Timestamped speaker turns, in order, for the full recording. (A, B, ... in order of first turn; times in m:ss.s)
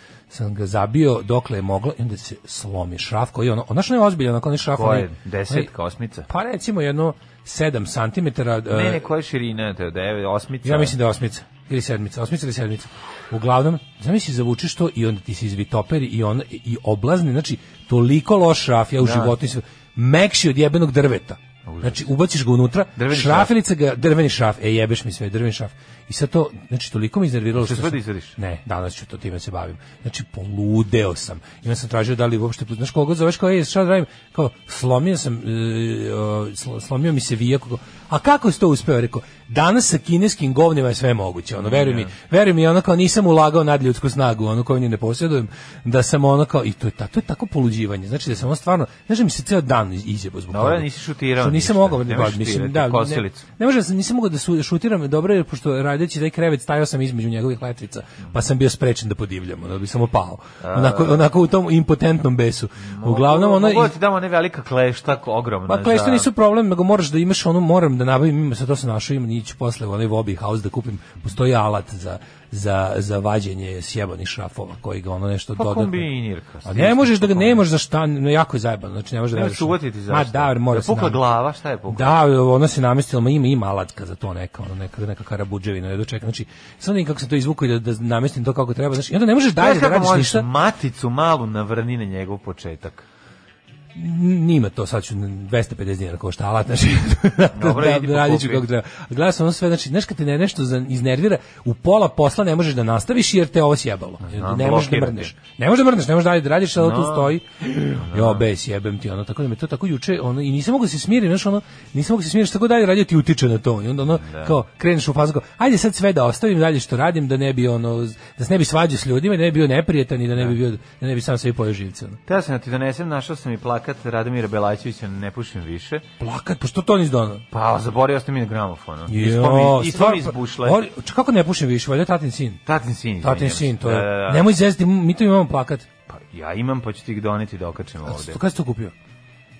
0:00.3-0:05.7 A
0:04.8-0:06.3 B
0:06.3-0:09.0 A
0:08.7-0:11.0 B
0:10.6-0:50.9 A
0:19.0-0:19.3 B
0:21.6-0:22.0 B
0:23.0-0:23.5 B
0:27.6-0:28.4 B
0:41.6-0:42.1 B
0:50.5-0:53.4 B
0:51.4-1:03.9 A
1:00.6-1:01.2 B
1:02.8-1:06.3 B
1:05.7-1:16.1 A
1:15.5-1:17.6 B
1:16.6-1:21.2 A
1:19.3-1:22.2 B
1:21.9-1:30.4 A
1:29.6-1:33.0 B
1:34.0-2:02.2 A
1:37.5-1:38.6 B
1:44.2-1:45.3 B
1:46.8-1:47.3 B
1:48.0-1:48.4 B
1:54.2-1:54.6 B
2:02.3-2:06.0 B
2:06.2-2:07.4 A
2:07.5-2:10.8 B
2:09.1-2:12.6 A
2:12.6-2:14.5 B
2:13.2-2:15.9 A
2:16.1-2:18.4 B
2:18.0-2:18.9 A